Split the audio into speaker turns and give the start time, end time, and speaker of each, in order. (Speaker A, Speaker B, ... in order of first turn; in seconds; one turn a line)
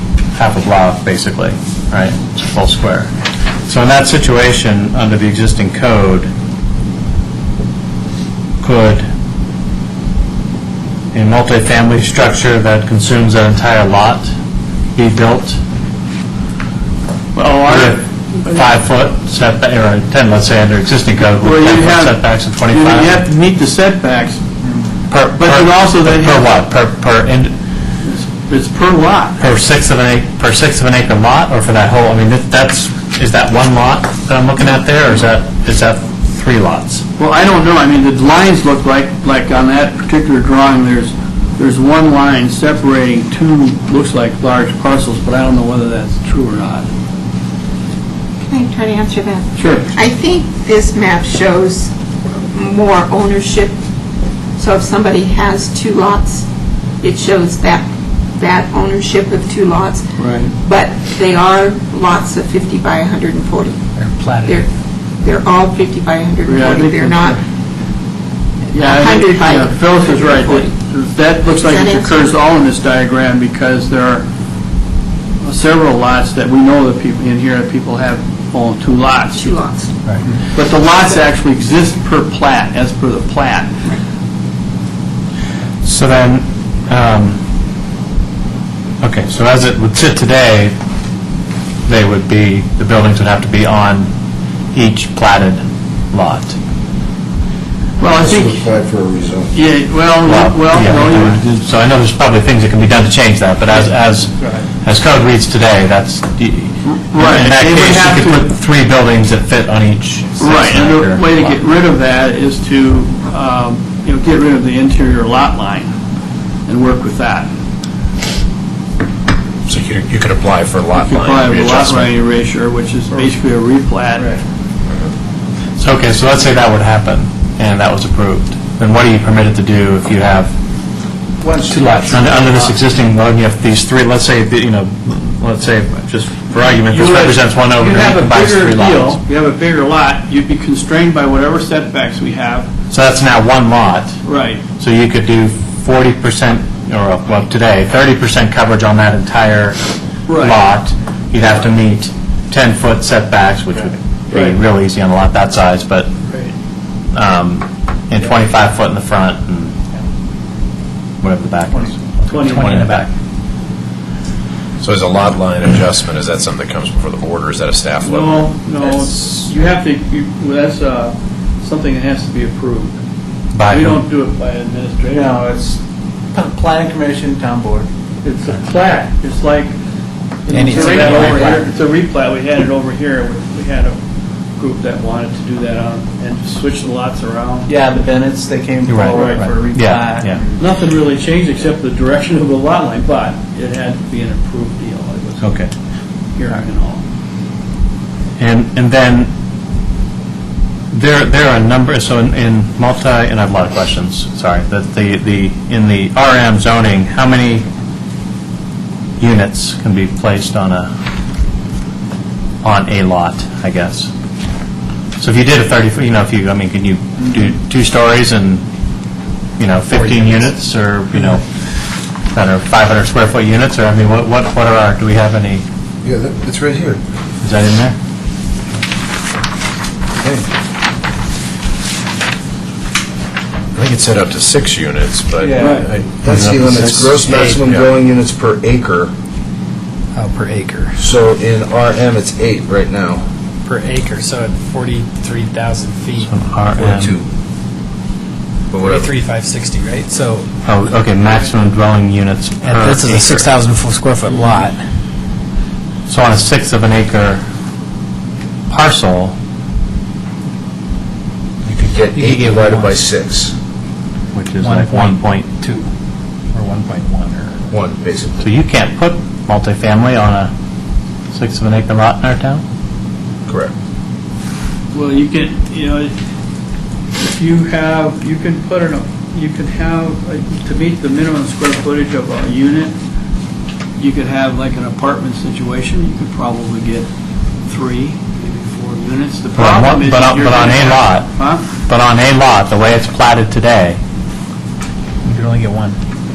Speaker A: 0.3-3.1
Speaker A: 3.7-6.3
Speaker A: 8.6-9.1
Speaker A: 11.1-14.3
Speaker A: 15.0-15.6
Speaker B: 17.3-18.7
Speaker A: 17.7-23.2
Speaker B: 21.3-24.4
Speaker A: 25.1-27.5
Speaker B: 25.4-26.5
Speaker B: 28.0-29.4
Speaker A: 29.4-37.0
Speaker B: 37.2-46.9
Speaker C: 48.5-53.8
Speaker B: 49.6-49.9
Speaker C: 54.6-56.5
Speaker C: 57.0-63.8
Speaker B: 60.2-60.5
Speaker D: 64.0-64.6
Speaker C: 65.2-67.4
Speaker B: 66.5-67.4
Speaker C: 68.7-70.7
Speaker B: 68.7-74.3
Speaker C: 71.5-72.4
Speaker B: 75.4-79.5
Speaker C: 79.4-80.2
Speaker B: 80.5-83.7
Speaker A: 85.8-87.4
Speaker A: 89.0-90.7
Speaker A: 91.9-94.1
Speaker A: 94.7-96.6
Speaker B: 98.0-98.7
Speaker E: 98.1-99.5
Speaker B: 99.5-101.4
Speaker A: 100.2-111.6
Speaker B: 103.7-104.7
Speaker B: 106.8-108.5
Speaker B: 110.4-116.0
Speaker B: 116.7-117.5
Speaker F: 119.7-122.2
Speaker B: 121.0-124.4
Speaker A: 125.8-130.6
Speaker G: 131.4-132.7
Speaker D: 131.7-132.0
Speaker A: 131.8-139.2
Speaker B: 136.8-142.7
Speaker A: 142.9-144.2
Speaker B: 144.2-144.6
Speaker A: 144.8-149.8
Speaker B: 150.3-150.6
Speaker A: 150.3-156.1
Speaker B: 154.3-154.6
Speaker B: 156.3-156.5
Speaker A: 157.1-159.8
Speaker A: 161.2-163.1
Speaker B: 162.3-162.8
Speaker D: 162.3-163.1
Speaker F: 164.8-168.5
Speaker B: 168.0-173.0
Speaker A: 173.5-174.0
Speaker B: 173.7-175.4
Speaker G: 175.1-175.8
Speaker G: 176.3-177.9
Speaker B: 178.2-179.8
Speaker B: 180.4-184.0
Speaker G: 180.5-181.6
Speaker D: 180.6-181.5
Speaker B: 184.6-188.1
Speaker G: 187.7-190.6
Speaker A: 188.9-190.4
Speaker B: 189.1-189.5
Speaker B: 190.6-195.5
Speaker A: 195.4-195.7
Speaker B: 196.4-197.0
Speaker A: 198.4-199.3
Speaker A: 200.9-207.7
Speaker A: 209.2-210.9
Speaker A: 212.6-214.1
Speaker A: 215.2-218.6
Speaker A: 219.6-221.4
Speaker A: 222.3-225.7
Speaker E: 226.0-227.0
Speaker A: 227.4-228.0
Speaker E: 230.2-230.5
Speaker F: 233.8-236.2
Speaker B: 235.5-235.9
Speaker E: 236.2-239.1
Speaker A: 236.3-237.2
Speaker D: 237.2-237.8
Speaker D: 240.1-241.0
Speaker E: 241.0-243.2
Speaker D: 243.7-246.3
Speaker A: 246.2-247.1
Speaker E: 246.8-247.3
Speaker E: 248.7-249.1
Speaker D: 248.8-250.5
Speaker A: 250.6-253.5
Speaker D: 252.6-254.8
Speaker A: 256.1-257.4
Speaker A: 258.7-259.4
Speaker E: 261.7-263.6
Speaker D: 262.1-263.0
Speaker A: 264.3-265.5
Speaker D: 264.6-265.9
Speaker D: 266.5-267.6
Speaker E: 267.7-268.5
Speaker A: 268.4-270.5
Speaker A: 271.3-272.6
Speaker E: 273.5-273.7
Speaker B: 274.9-276.2
Speaker B: 277.2-282.9
Speaker B: 284.0-287.1
Speaker B: 287.6-291.6
Speaker A: 289.6-294.0
Speaker D: 295.2-296.0